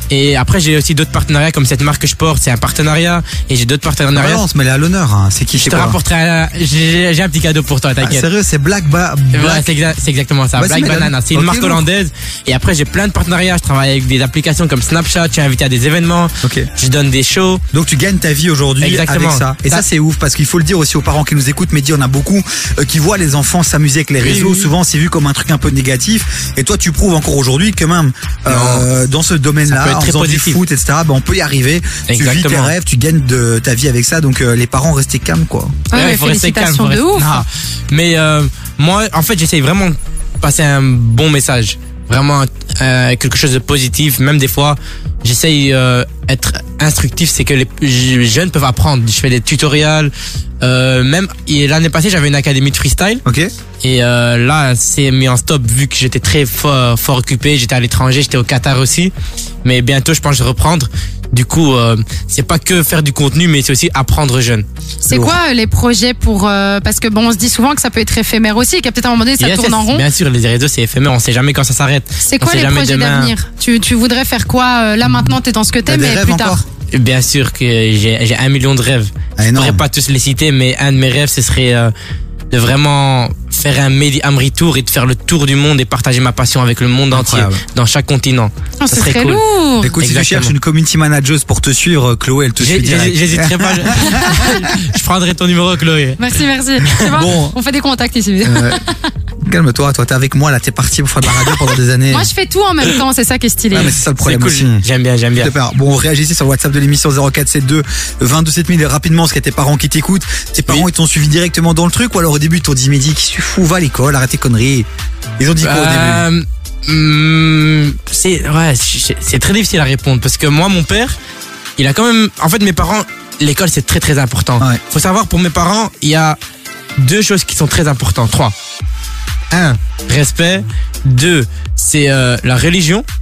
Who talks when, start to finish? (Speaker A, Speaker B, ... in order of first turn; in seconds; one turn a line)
Speaker A: 0.1-4.4
Speaker B: 4.1-6.0
Speaker A: 5.5-8.3
Speaker B: 8.0-9.7
Speaker A: 9.3-17.6
Speaker B: 10.6-11.8
Speaker B: 16.4-16.7
Speaker B: 17.7-35.8
Speaker A: 18.8-19.8
Speaker A: 24.2-24.7
Speaker A: 28.5-28.9
Speaker A: 29.7-30.6
Speaker A: 32.1-32.7
Speaker C: 35.9-37.5
Speaker A: 36.0-53.2
Speaker A: 53.8-59.1
Speaker A: 59.6-64.7
Speaker C: 65.0-70.1
Speaker B: 65.1-65.4
Speaker A: 69.4-73.3
Speaker C: 72.2-76.6
Speaker B: 75.0-76.7
Speaker A: 76.9-81.9
Speaker B: 79.4-79.8
Speaker A: 82.5-89.4
Speaker B: 87.1-87.6
Speaker C: 88.8-89.9
Speaker B: 89.8-94.7
Speaker A: 90.0-90.5
Speaker A: 92.6-96.4
Speaker C: 94.0-94.6
Speaker C: 96.2-99.1
Speaker B: 96.9-97.6
Speaker B: 98.4-98.8
Speaker B: 99.5-102.3
Speaker C: 101.5-103.9
Speaker B: 103.7-114.9
Speaker A: 104.2-105.5
Speaker B: 115.4-116.3
Speaker A: 115.6-121.2
Speaker A: 121.8-126.4
Speaker A: 127.0-128.5
Speaker A: 129.5-133.1